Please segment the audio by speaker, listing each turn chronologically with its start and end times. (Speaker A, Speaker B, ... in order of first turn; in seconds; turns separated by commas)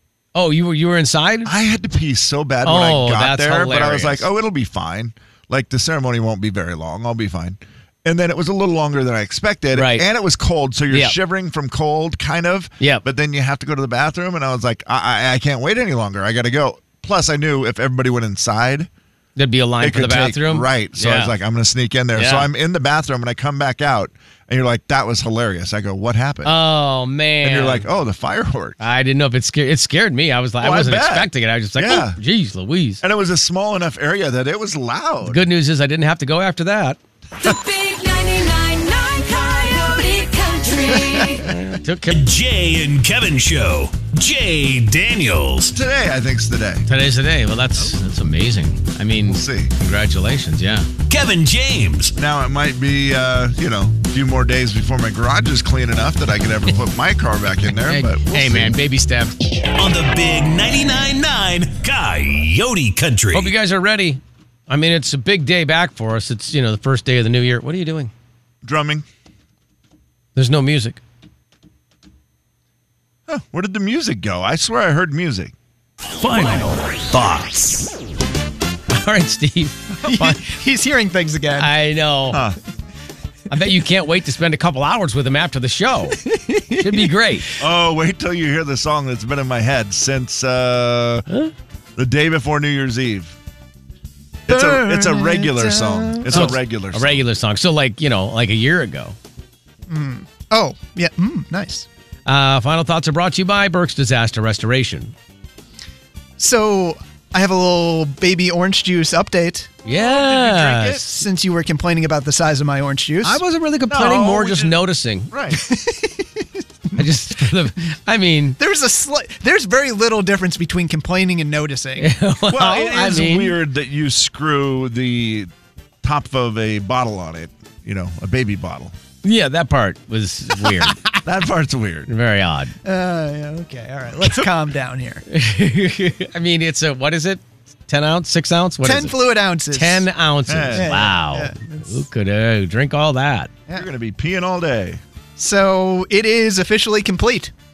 Speaker A: 0.3-1.5, Speaker B: 1.4-18.9, Speaker A: 2.6-4.3, Speaker A: 9.7-10.1, Speaker A: 10.9-11.2, Speaker A: 12.8-13.1, Speaker A: 19.4-21.3, Speaker B: 19.8-26.5, Speaker A: 22.1-22.5, Speaker A: 26.4-27.9, Speaker B: 27.4-28.8, Speaker A: 28.8-33.0, Speaker B: 30.6-32.2, Speaker B: 33.0-35.4, Speaker A: 35.2-37.0, Speaker C: 37.4-41.5, Speaker A: 41.4-42.2, Speaker D: 42.1-45.7, Speaker B: 45.7-46.9, Speaker A: 46.9-50.9, Speaker B: 49.2-49.7, Speaker D: 51.1-52.1, Speaker B: 52.2-58.8, Speaker A: 57.7-59.4, Speaker D: 59.8-63.5, Speaker A: 63.3-68.1, Speaker B: 68.6-69.1, Speaker A: 70.4-71.0, Speaker B: 73.3-75.5, Speaker D: 76.1-77.9, Speaker A: 78.9-80.5, Speaker E: 80.0-81.7, Speaker A: 81.6-82.4, Speaker B: 82.3-82.6, Speaker A: 83.5-86.2, Speaker E: 86.2-87.1, Speaker A: 86.8-87.5, Speaker B: 87.6-91.2, Speaker B: 92.0-93.4, Speaker B: 94.5-97.2, Speaker E: 94.5-96.5, Speaker A: 96.3-99.2, Speaker E: 99.9-101.9, Speaker A: 102.2-105.1, Speaker E: 106.4-109.7, Speaker A: 109.8-111.0, Speaker B: 109.9-111.1, Speaker E: 111.0-113.4, Speaker A: 113.2-115.3, Speaker B: 113.9-115.6, Speaker E: 115.5-117.5, Speaker A: 117.0-118.6, Speaker E: 118.6-122.1, Speaker A: 122.0-123.6, Speaker B: 122.5-125.5, Speaker B: 126.0-128.9, Speaker A: 129.2-131.0, Speaker B: 131.2-132.1, Speaker A: 132.1-132.7, Speaker E: 132.8-135.2, Speaker A: 135.3-139.1, Speaker E: 138.8-140.1, Speaker A: 139.7-143.5, Speaker B: 140.5-140.9, Speaker E: 140.7-142.0, Speaker B: 143.7-145.0, Speaker E: 145.4-147.5